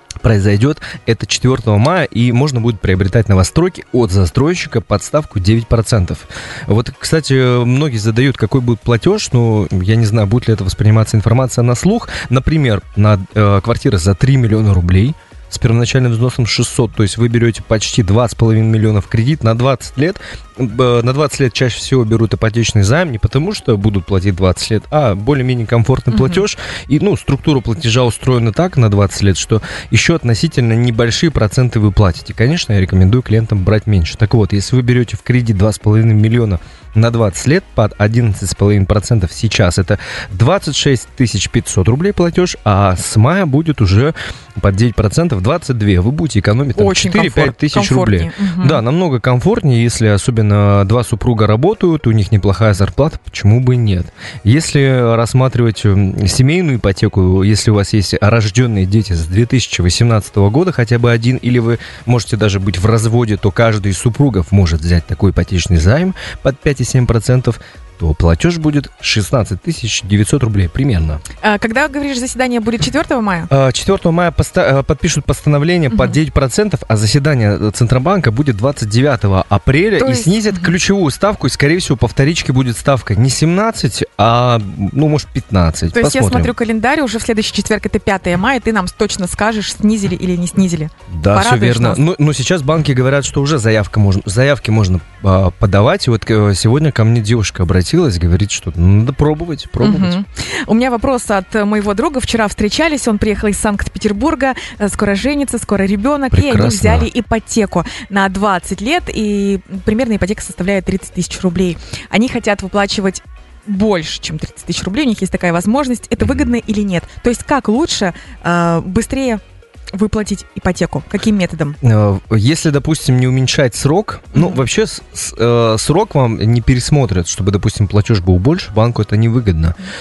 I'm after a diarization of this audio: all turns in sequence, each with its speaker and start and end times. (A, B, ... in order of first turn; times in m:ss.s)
0:00.2-1:11.2 A
0:26.1-0:26.4 B
0:46.7-0:48.8 B
1:11.4-1:13.5 B
1:13.5-1:26.5 A
1:15.9-1:16.2 B
1:20.0-1:20.7 B
1:25.9-1:32.0 B
1:31.1-1:40.2 A
1:39.8-1:59.4 B
1:46.3-1:47.1 A
1:56.2-1:56.5 A
1:59.9-2:01.8 B
2:01.8-2:09.7 A
2:04.3-2:04.6 B